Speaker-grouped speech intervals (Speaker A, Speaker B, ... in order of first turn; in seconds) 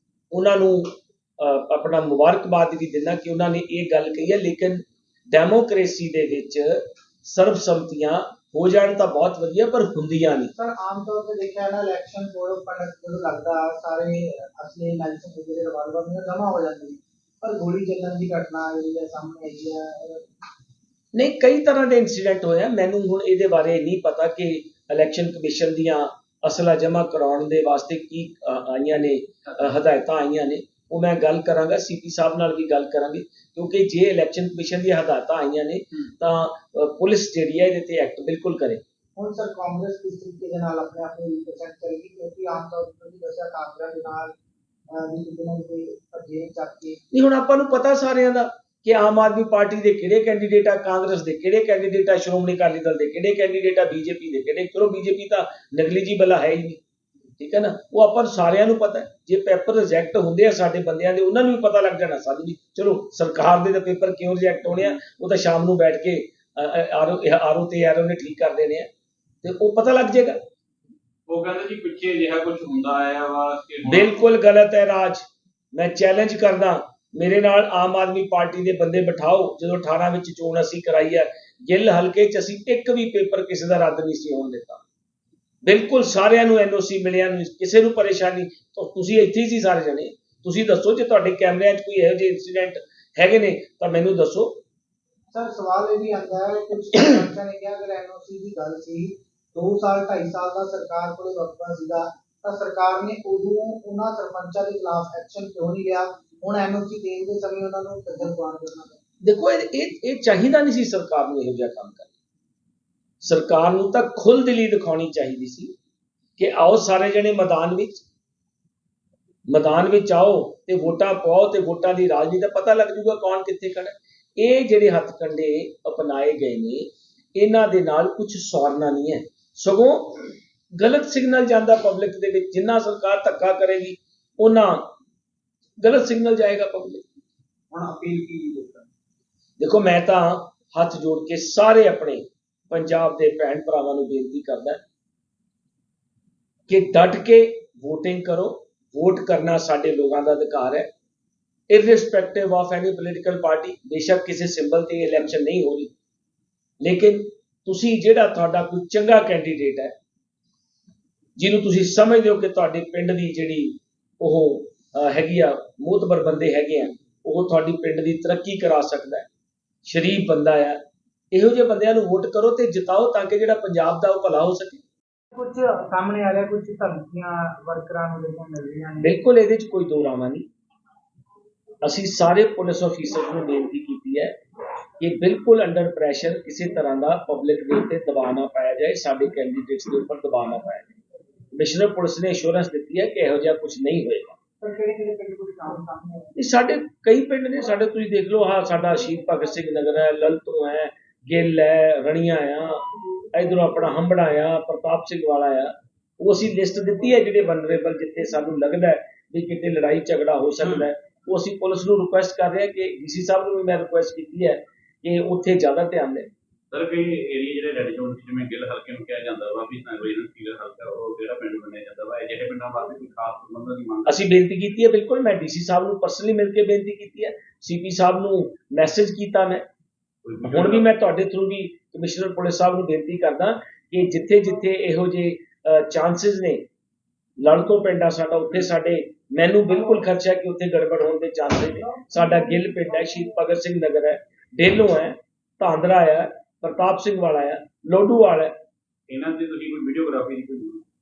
Speaker A: 0.3-10.5, 21.1-38.8, 47.1-56.8, 57.4-68.9, 69.4-70.4, 73.8-84.8, 85.6-94.6, 109.2-112.1, 113.2-115.7, 116.4-118.0, 119.5-134.9, 135.8-137.0, 139.6-144.8, 146.7-150.9, 151.7-155.9, 156.8-159.9, 161.3-169.2, 169.8-170.8, 171.3-174.8, 179.0-180.5, 181.8-184.3, 185.0-190.9, 191.5-194.3, 196.3-216.3, 224.1-229.6, 230.5-236.6, 237.4-248.5
Speaker B: 10.5-20.2, 39.1-44.3, 44.9-47.0, 95.3-109.0, 137.7-138.9, 175.3-179.2, 194.6-196.4
Speaker C: 71.3-74.1, 210.6-210.8, 216.7-224.2, 230.2-230.9, 249.1-250.8